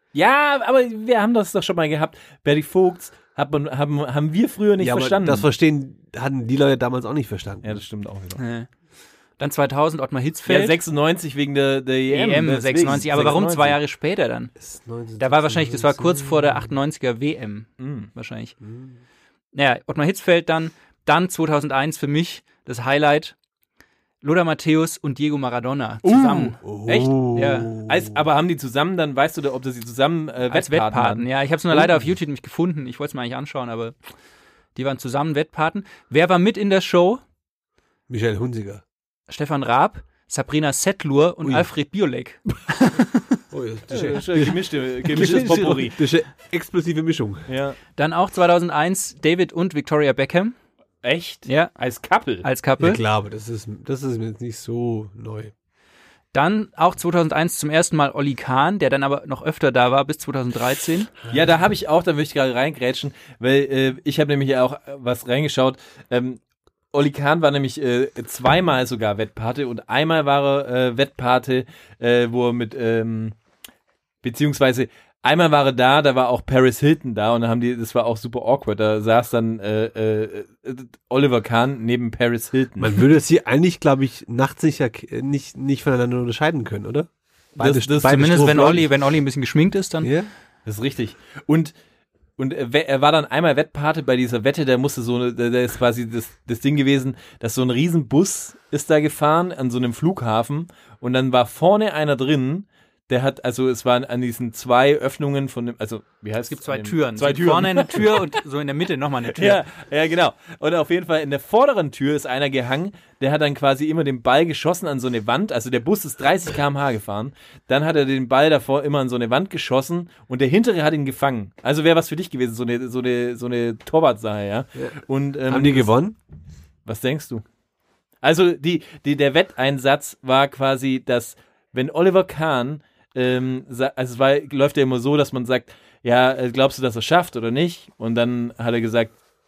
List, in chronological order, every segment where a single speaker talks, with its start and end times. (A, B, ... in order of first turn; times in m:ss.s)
0:00.1-0:05.5 A
0:04.8-0:07.8 B
0:07.6-0:08.4 A
0:08.4-0:08.7 C
0:09.4-0:10.8 C
0:10.5-0:13.8 A
0:12.1-0:14.5 C
0:14.6-0:16.7 B
0:15.2-0:18.5 C
0:17.8-0:18.1 A
0:18.6-0:19.0 B
0:19.5-0:23.4 C
0:24.2-0:26.6 C
0:26.0-0:27.2 A
0:26.6-0:28.2 B
0:27.3-0:27.7 C
0:27.7-0:31.9 A
0:30.5-0:34.0 C
0:34.8-0:37.2 C
0:38.1-0:38.8 B
0:39.3-0:43.4 C
0:43.5-0:47.5 B
0:43.9-0:46.0 A
0:47.5-0:47.8 A
0:48.0-0:50.5 C
0:51.0-0:52.5 A
0:52.4-0:53.0 C
0:52.8-0:55.5 B
0:56.3-1:01.1 C
1:01.3-1:06.4 A
1:06.9-1:13.4 A
1:14.2-1:23.0 A
1:22.8-1:28.8 B
1:27.6-1:28.8 A
1:28.0-1:30.1 C
1:30.0-1:30.3 B
1:30.7-1:31.7 A
1:32.4-1:48.4 A
1:46.5-1:49.6 C
1:49.4-2:05.9 A
2:05.5-2:06.2 B
2:06.9-2:07.4 A
2:08.2-2:19.1 A